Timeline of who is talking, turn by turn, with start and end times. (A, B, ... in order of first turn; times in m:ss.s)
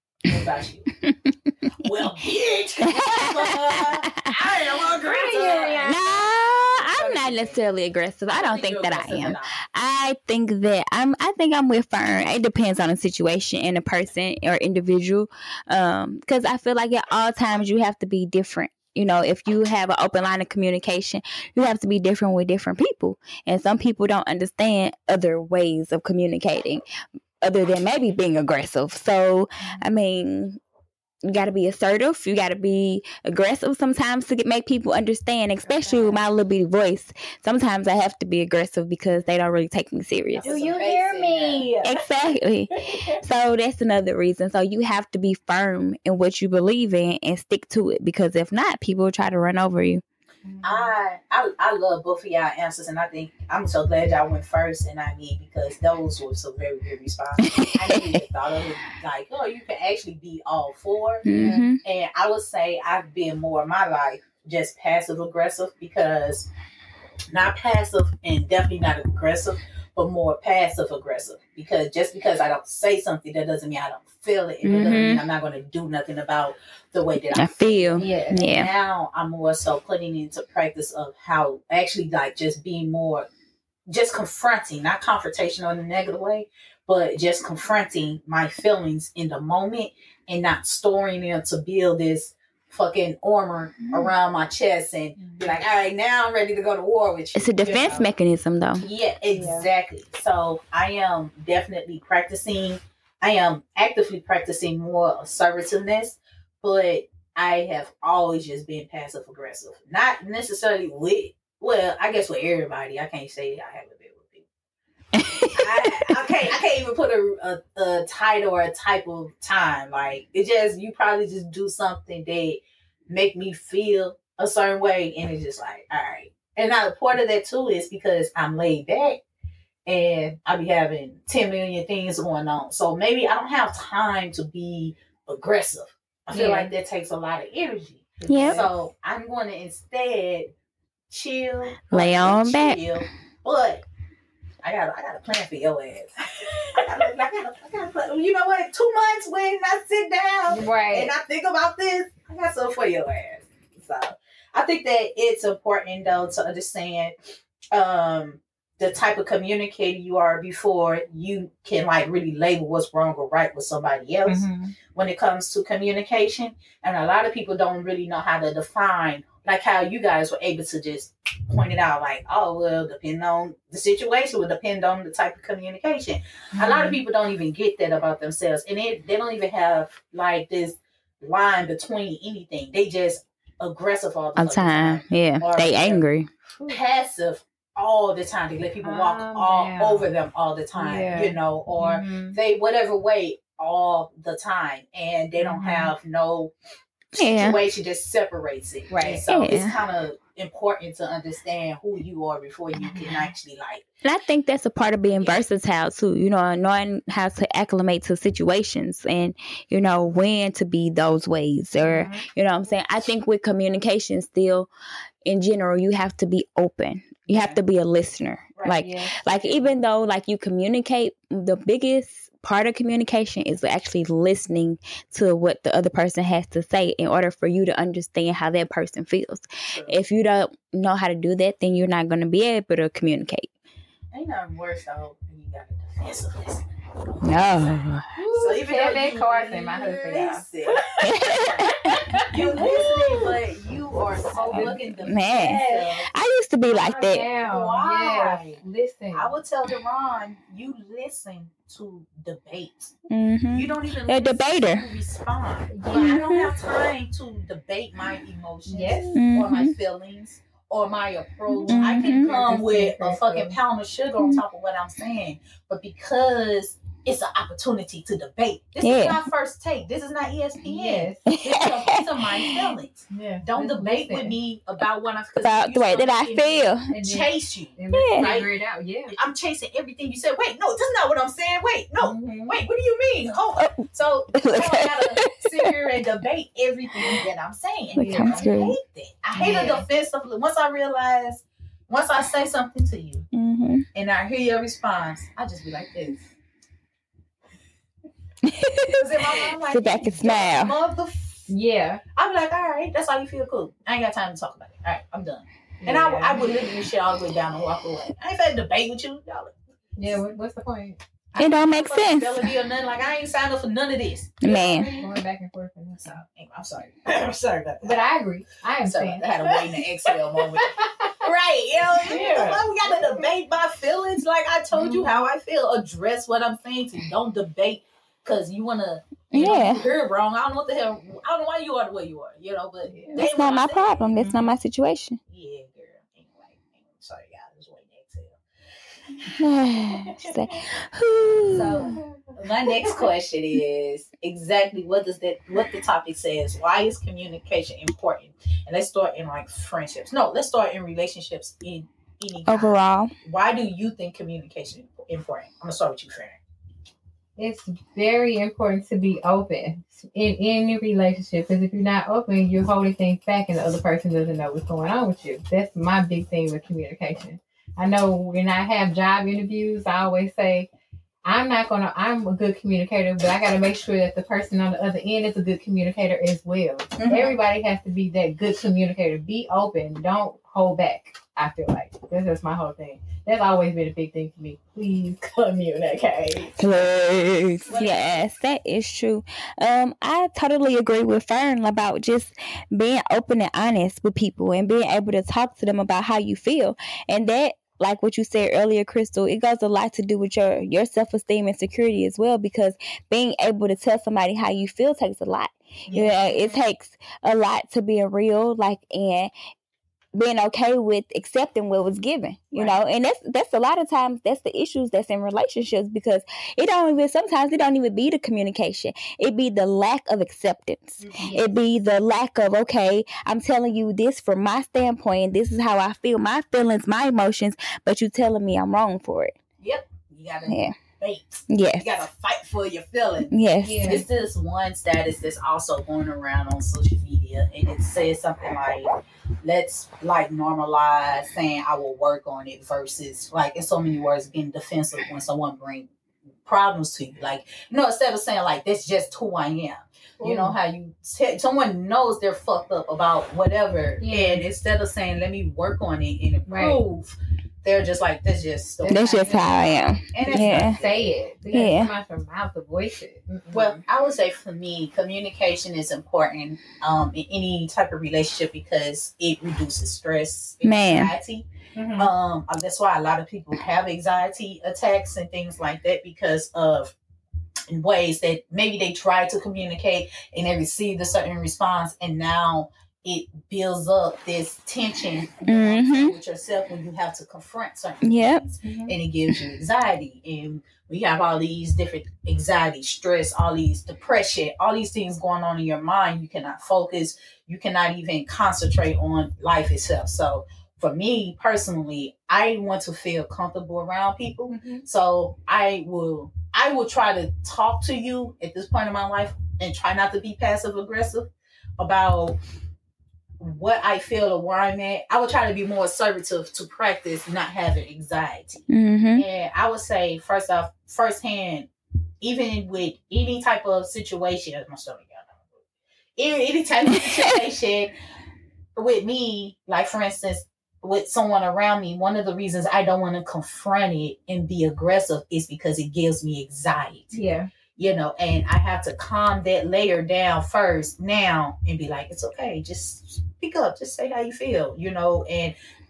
0:00.2-0:00.9 A
0:01.0-0:01.7 B
0:01.8-0:06.0 A
0:02.9-0:04.3 B
0:04.8-0:06.1 C
0:05.8-0:26.8 B
0:06.8-0:07.6 A
0:08.3-0:09.6 A
0:27.4-0:30.6 B
0:31.2-0:40.7 B
0:35.7-0:36.2 C
0:40.4-0:41.7 A
0:40.4-0:42.0 C
0:41.8-0:50.0 B
0:42.8-0:43.2 C
0:50.4-0:50.9 C
0:50.6-1:01.3 A
0:57.6-0:58.2 B
1:01.2-1:01.8 B
1:01.3-1:01.7 C
1:01.8-1:06.5 A
1:07.3-1:23.3 A
1:14.6-1:15.2 B
1:17.3-1:18.7 B
1:18.0-1:18.5 C
1:23.9-1:38.1 A
1:35.2-1:35.6 C
1:37.4-1:38.8 B
1:38.8-1:54.4 A
1:39.3-1:39.7 C
1:55.1-1:56.0 B
1:55.6-2:09.2 A
2:09.9-2:20.5 A
2:16.3-2:16.7 C
2:18.2-2:18.7 C
2:18.3-2:18.6 B
2:21.1-2:23.8 A
2:21.9-2:22.8 B
2:24.6-2:37.1 A
2:30.5-2:31.1 C
2:37.7-3:06.0 A
2:44.2-2:44.7 C
2:56.5-2:57.0 C
3:04.4-3:06.3 B
3:06.7-3:16.5 A
3:08.8-3:10.1 C
3:10.8-3:12.4 C
3:15.4-3:15.9 C
3:17.2-3:17.6 B
3:17.2-3:23.8 A
3:18.9-3:19.2 C
3:19.3-3:19.8 B
3:22.9-3:23.2 C
3:24.0-3:34.7 B
3:25.2-3:25.4 A
3:31.8-3:32.2 C
3:35.2-3:53.5 B
3:37.3-3:37.6 A
3:38.6-3:39.7 A
3:38.8-3:39.2 C
3:49.7-3:50.0 A
3:54.1-4:01.7 A
3:57.2-3:58.0 B
3:58.2-4:00.5 C
4:01.0-4:03.2 B
4:01.8-4:02.7 C
4:02.2-4:06.1 A
4:04.4-4:04.8 C
4:04.5-4:07.3 B
4:05.3-4:05.9 C
4:06.7-4:09.3 C
4:07.4-4:08.6 A
4:09.1-4:12.9 A
4:13.1-4:14.9 B
4:13.5-4:38.5 A
4:15.7-4:16.2 C
4:15.9-4:16.5 B
4:18.7-4:19.1 C
4:19.2-4:19.7 B
4:21.5-4:23.6 C
4:21.7-4:22.3 B
4:28.8-4:29.2 B
4:30.6-4:31.2 C
4:31.3-4:32.7 B
4:33.1-4:34.4 C
4:35.4-4:36.9 B
4:36.9-4:39.2 C
4:37.9-4:38.3 B
4:39.1-4:53.3 A
4:42.0-4:42.6 C
4:44.4-4:45.5 B
4:47.9-4:48.8 B
4:48.0-4:48.4 C
4:49.3-4:49.8 C
4:53.3-4:53.8 B
4:53.9-4:56.2 A
4:58.4-5:00.7 B
4:58.9-5:01.5 A
5:01.5-5:02.0 C
5:02.2-5:09.5 A
5:05.8-5:06.6 C
5:10.0-5:11.0 C
5:11.3-5:15.2 A
5:11.4-5:12.5 B
5:14.4-5:14.9 B
5:14.9-5:16.2 C
5:16.0-5:18.1 A
5:17.8-5:21.2 C
5:18.8-5:34.1 A
5:22.0-5:23.3 C
5:24.7-5:25.3 C
5:29.3-5:29.8 B
5:32.9-5:33.2 C
5:33.2-5:35.2 B
5:34.2-5:34.5 C
5:35.3-5:38.4 A
5:39.3-5:42.0 B
5:41.5-5:56.4 A
5:52.4-5:53.1 B
5:57.4-6:10.7 C
6:11.2-6:26.6 C
6:17.0-6:17.4 A
6:26.6-6:49.3 B
6:27.7-6:28.3 A
6:45.9-6:46.6 A
6:50.1-7:09.3 B
6:52.5-6:52.8 A
7:01.0-7:01.4 A
7:01.2-7:01.5 C
7:09.6-7:13.3 A
7:10.5-7:10.8 B
7:11.5-7:12.0 B
7:13.3-7:14.0 B
7:13.6-7:14.1 C
7:13.8-7:18.9 A
7:19.4-7:25.9 A
7:26.4-7:41.1 A
7:30.2-7:30.6 C
7:34.0-7:34.4 C
7:36.5-7:36.8 C
7:38.8-7:39.7 C
7:38.9-7:40.8 B
7:40.3-7:43.8 C
7:41.5-7:41.9 B
7:43.5-7:51.4 A
7:50.6-7:51.1 B
7:51.7-7:52.1 C
7:52.0-7:56.9 A
7:57.7-8:32.4 A
8:05.4-8:06.2 B
8:08.0-8:08.4 B
8:08.6-8:08.9 C
8:24.5-8:24.8 C
8:33.4-8:41.7 A
8:38.7-8:39.2 B
8:42.2-8:45.4 A
8:46.2-8:47.9 A
8:48.8-8:57.2 A
8:57.1-8:57.5 C
8:57.8-9:05.6 A